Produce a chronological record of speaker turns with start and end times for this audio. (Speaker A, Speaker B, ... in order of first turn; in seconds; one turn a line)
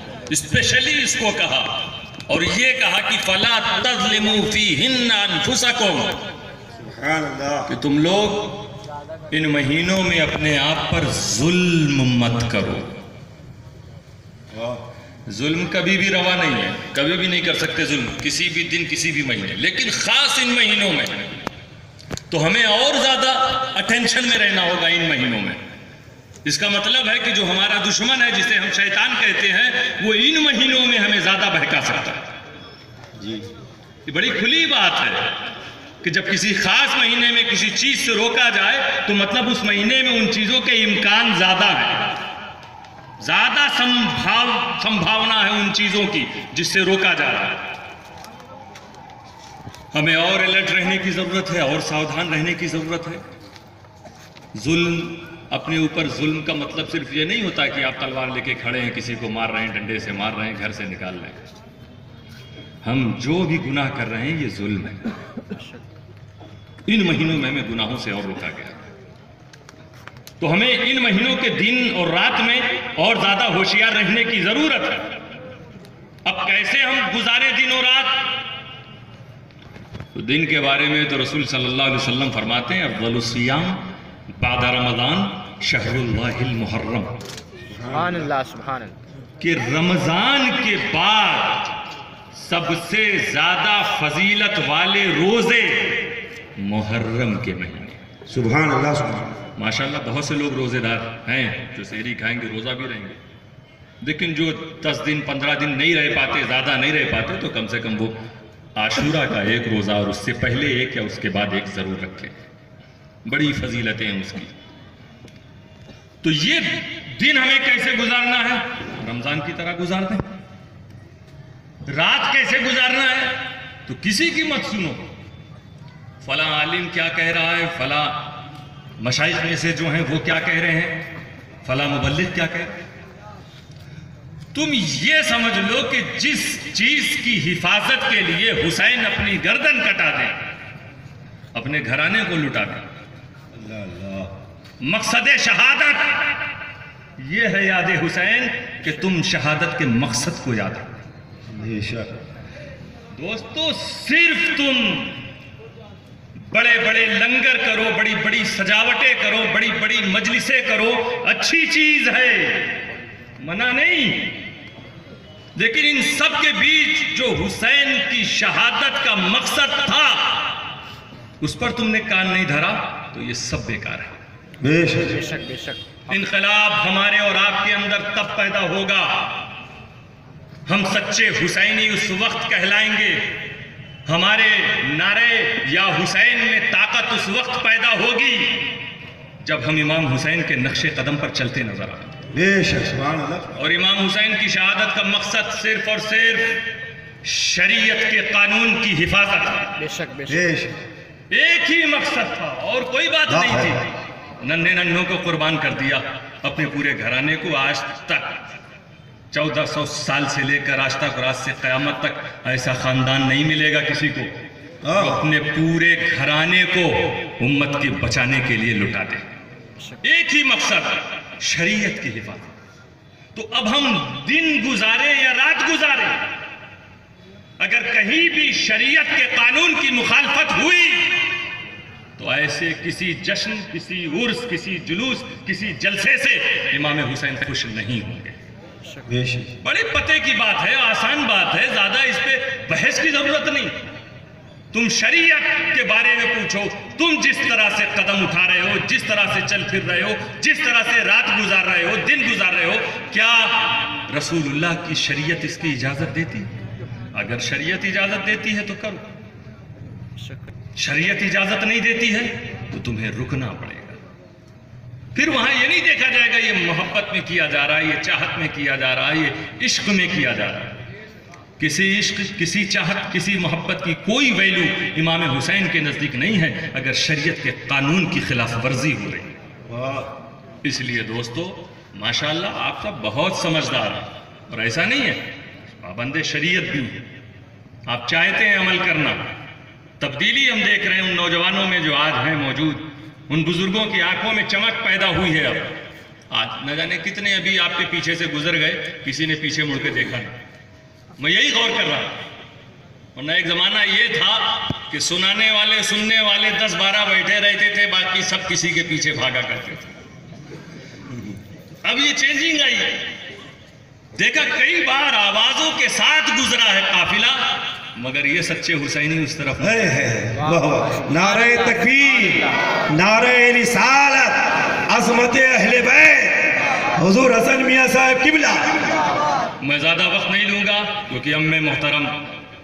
Speaker A: 0.3-6.2
Speaker B: 6.8-7.7
Speaker A: 7.7-8.6
Speaker A: 9.3-12.9
Speaker B: 14.5-14.8
Speaker A: 15.3-21.4
Speaker A: 22.3-25.6
Speaker A: 26.4-32.2
Speaker B: 33.2-33.5
Speaker A: 34.0-35.3
Speaker A: 36.0-42.1
Speaker A: 43.2-47.7
Speaker A: 49.9-53.2
Speaker A: 54.5-61.4
Speaker A: 62.8-65.1
Speaker A: 66.8-68.8
Speaker A: 70.4-75.1
Speaker A: 76.2-78.3
Speaker A: 80.1-83.8
Speaker A: 84.3-87.2
Speaker B: 87.7-88.3
Speaker C: 87.8-89.0
Speaker A: 89.4-91.7
Speaker A: 92.3-98.0
Speaker B: 98.3-99.3
Speaker A: 99.5-103.2
Speaker A: 104.0-108.2
Speaker A: 108.8-112.3
Speaker A: 113.2-114.5
Speaker A: 116.2-120.2
Speaker A: 121.8-125.0
Speaker A: 126.2-128.2
Speaker A: 129.0-131.0
Speaker A: 131.6-132.8
Speaker A: 134.5-140.4
Speaker A: 141.5-142.8
Speaker B: 143.6-144.3
Speaker A: 144.8-146.3
Speaker A: 147.2-150.9
Speaker B: 151.5-152.1
Speaker A: 153.1-155.2
Speaker A: 156.4-162.8
Speaker A: 163.4-164.4
Speaker A: 165.6-170.5
Speaker A: 171.4-174.1
Speaker B: 174.6-175.2
Speaker C: 175.1-176.0
Speaker A: 176.1-179.4
Speaker A: 180.7-183.3
Speaker A: 184.1-188.7
Speaker A: 189.4-192.2
Speaker B: 192.3-193.5
Speaker A: 193.6-196.6
Speaker A: 197.2-199.8
Speaker C: 199.8-200.5
Speaker B: 200.3-200.8
Speaker A: 201.3-208.4
Speaker B: 203.3-203.8
Speaker A: 209.3-214.3
Speaker B: 214.8-215.2
Speaker A: 214.9-219.2
Speaker A: 220.0-222.5
Speaker A: 223.3-226.3
Speaker A: 227.6-231.2
Speaker A: 232.2-238.3
Speaker B: 239.1-239.5
Speaker A: 239.6-243.8
Speaker A: 244.7-256.5
Speaker A: 257.1-259.0
Speaker C: 260.2-260.5
Speaker A: 260.8-264.0
Speaker A: 265.1-270.8
Speaker A: 271.6-279.4
Speaker B: 279.7-280.1
Speaker A: 280.6-285.2
Speaker A: 285.8-287.0
Speaker A: 287.9-289.2
Speaker A: 290.0-295.8
Speaker A: 296.3-300.3
Speaker A: 301.2-302.1
Speaker A: 303.1-309.9
Speaker A: 311.8-313.0
Speaker A: 314.1-319.8
Speaker B: 319.6-329.0
Speaker C: 320.4-322.6
Speaker A: 329.6-332.2